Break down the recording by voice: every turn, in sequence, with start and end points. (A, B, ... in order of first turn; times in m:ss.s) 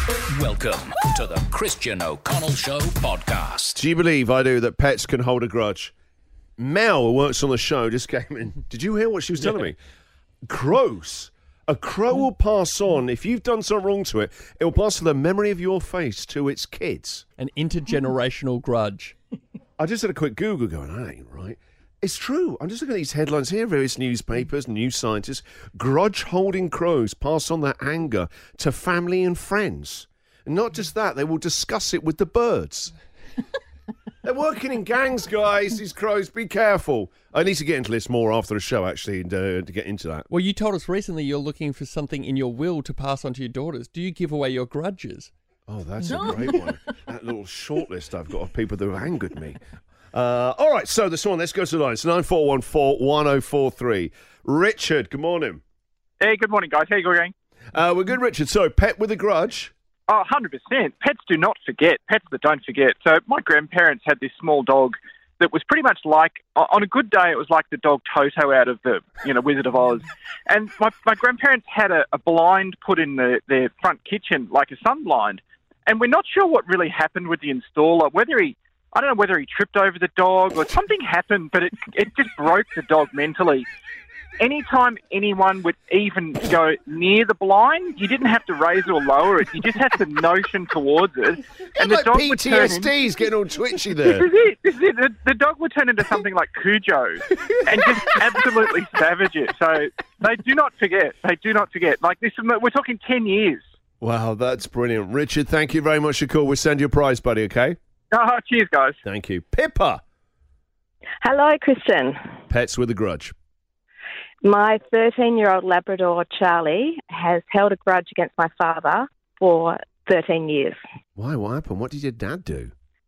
0:00.3-0:03.8 A
0:03.8-0:05.9 B
0:06.6-0:09.8 B
0:10.5-0:17.2 B
0:17.4-0:19.2 C
0:19.8-0:32.9 B
0:34.2-0:40.3 B
0:40.3-0:45.3 C
0:45.7-0:49.6 B
0:50.1-0:55.6 B
0:56.2-0:57.3 D
0:57.7-0:59.7 B
1:00.1-1:23.6 D
1:24.4-1:32.9 D
1:31.8-1:34.2 B
1:34.1-1:43.6 D
1:44.0-1:47.8 B
1:48.1-1:49.0 D
1:49.0-1:50.0 B
1:51.2-1:52.2 E
1:52.5-1:53.3 B
1:54.4-2:00.8 E
2:01.2-2:02.7 B